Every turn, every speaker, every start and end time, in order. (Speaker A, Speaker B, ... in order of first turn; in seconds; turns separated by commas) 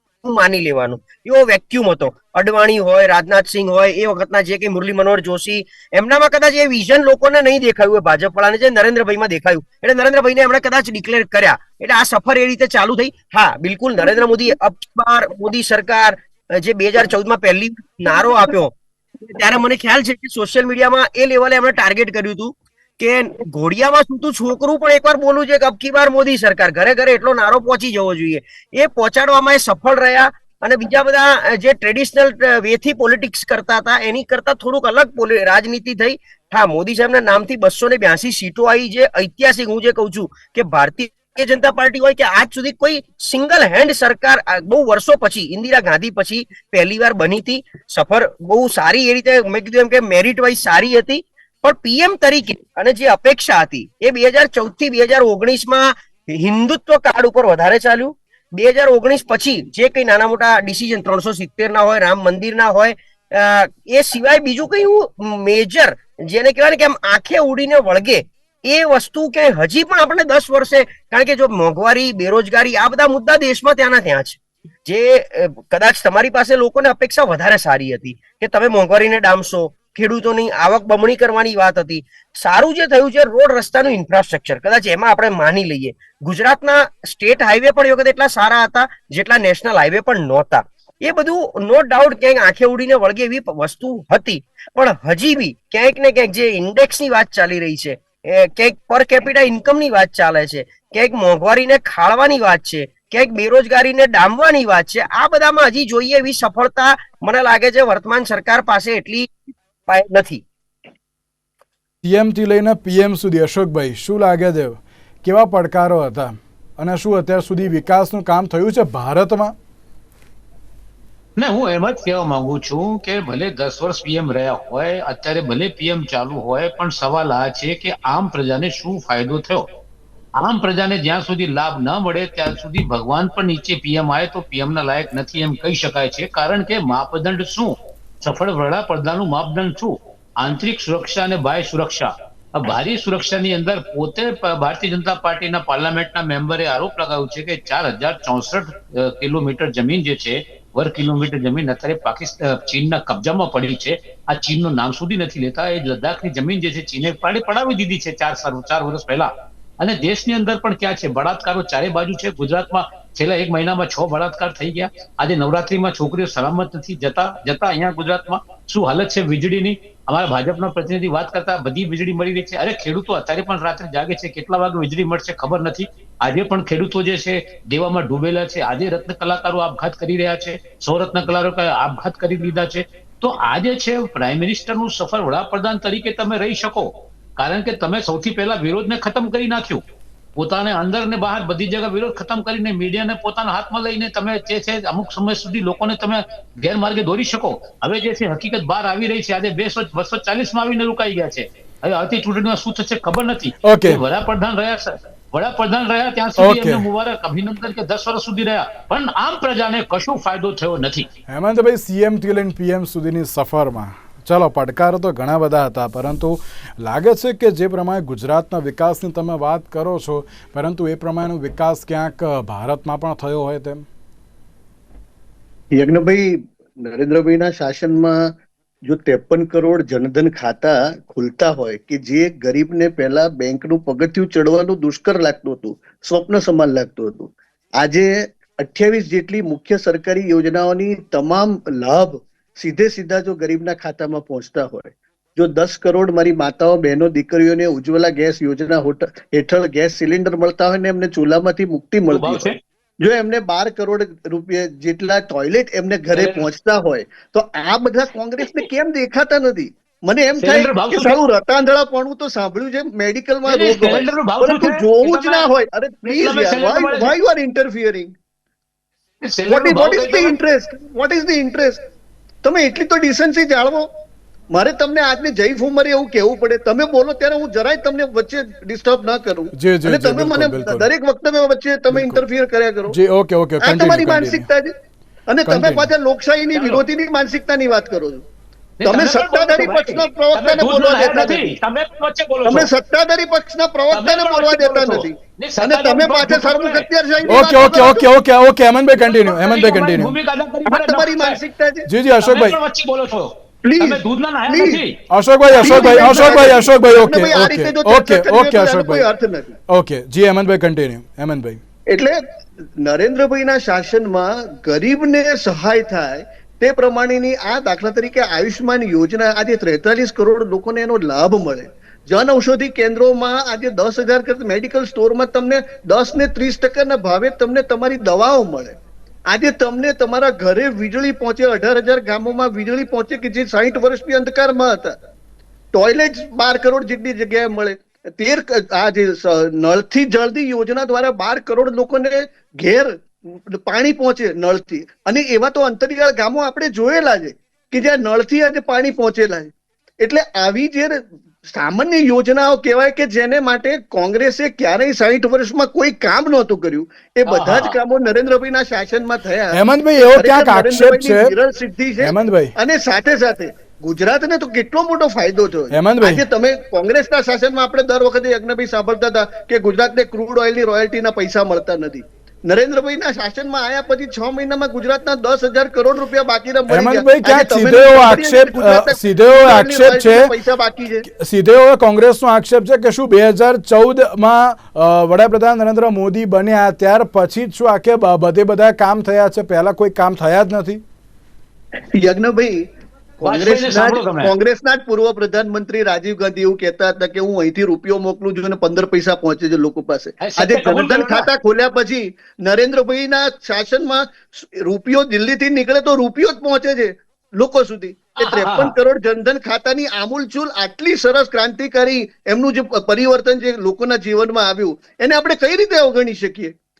Speaker A: 0.2-110.4, Speaker B: 112.0-119.5, Speaker C: 121.4-129.7, Speaker C: 130.4-189.8, Speaker C: 190.4-211.1, Speaker B: 203.6-204.0, Speaker B: 206.4-206.8, Speaker B: 211.3-223.8, Speaker D: 225.7-252.5, Speaker C: 252.1-252.6, Speaker D: 253.0-268.1, Speaker C: 256.1-256.5, Speaker C: 260.4-261.2, Speaker C: 263.5-265.5, Speaker C: 266.0-267.1, Speaker C: 269.2-270.3, Speaker D: 269.5-271.8, Speaker D: 272.4-273.9, Speaker D: 274.5-283.0, Speaker B: 279.6-280.9, Speaker B: 281.9-282.2, Speaker B: 282.9-284.5, Speaker D: 283.6-284.7, Speaker D: 285.3-288.2, Speaker B: 285.5-285.9, Speaker C: 286.5-286.8, Speaker C: 288.8-292.7, Speaker D: 288.9-291.6, Speaker D: 292.4-298.1, Speaker C: 293.9-296.9, Speaker B: 297.3-300.1, Speaker C: 299.1-301.4, Speaker D: 300.7-301.9, Speaker B: 301.9-302.6, Speaker C: 302.2-305.0, Speaker D: 303.6-304.8, Speaker B: 305.1-309.1, Speaker C: 305.5-306.6, Speaker D: 305.6-309.6, Speaker B: 309.7-311.6, Speaker D: 311.9-312.2, Speaker D: 312.8-328.8, Speaker D: 329.3-334.9, Speaker D: 335.7-381.1, Speaker C: 357.3-357.8, Speaker B: 359.5-361.3, Speaker B: 362.0-362.5, Speaker B: 365.7-366.2, Speaker B: 376.7-380.3, Speaker B: 381.1-390.8, Speaker D: 391.9-392.6, Speaker D: 393.2-416.5, Speaker C: 393.2-394.3, Speaker C: 400.2-401.3, Speaker C: 408.2-408.8